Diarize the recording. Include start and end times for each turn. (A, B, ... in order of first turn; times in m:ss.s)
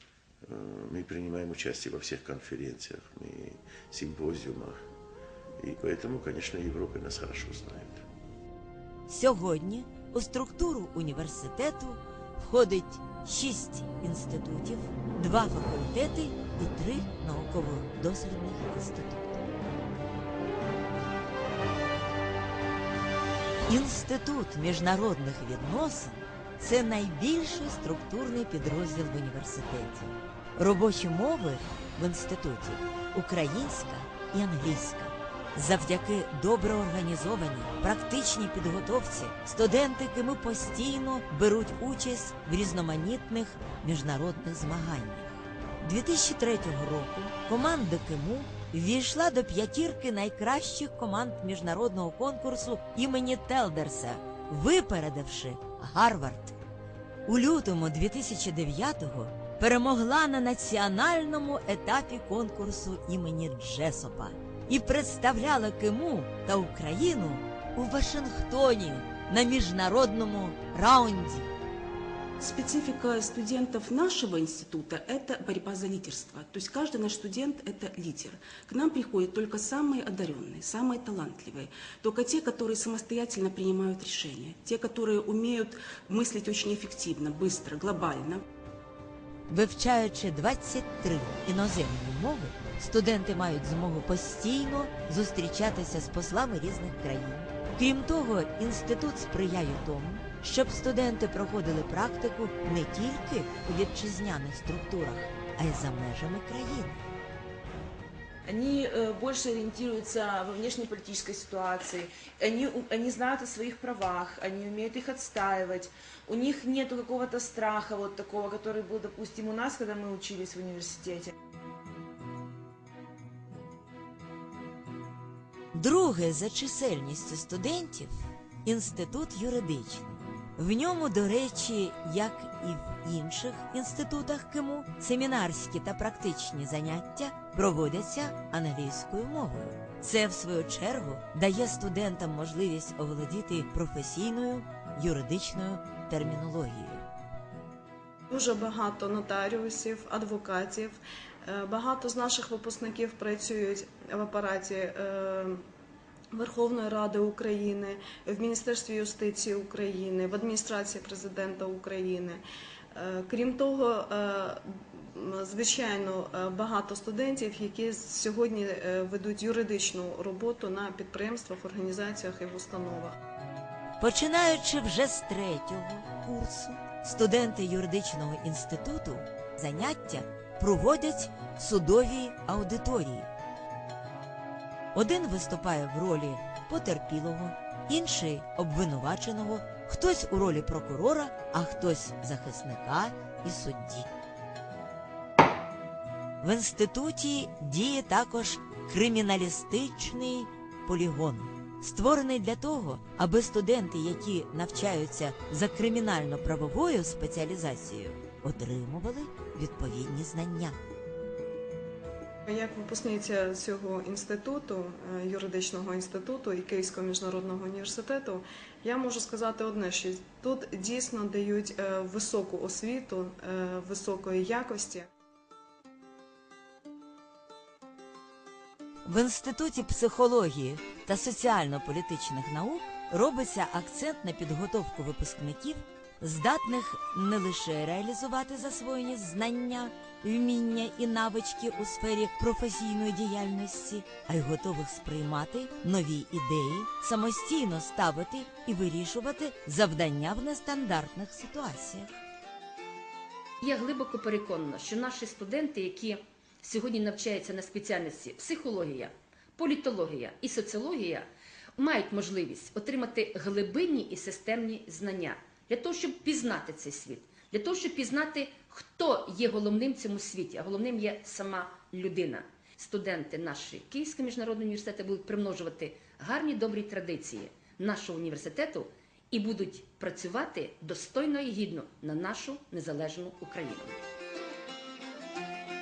0:00.4-0:04.8 A
0:05.6-0:08.0 A
0:09.1-0:19.5 B
0:23.7-0:56.6 B
0:57.3-1:11.5 B
1:12.4-1:28.4 C
1:29.5-1:47.0 B
1:48.5-2:01.3 D
2:05.7-2:27.1 B
2:28.3-2:35.6 E
2:36.3-2:42.4 E
2:42.9-2:53.2 E
2:54.0-3:03.3 B
3:04.9-3:14.1 B
3:16.4-3:30.8 B
3:32.5-3:45.1 E
3:49.0-4:12.2 B
4:13.6-4:44.0 F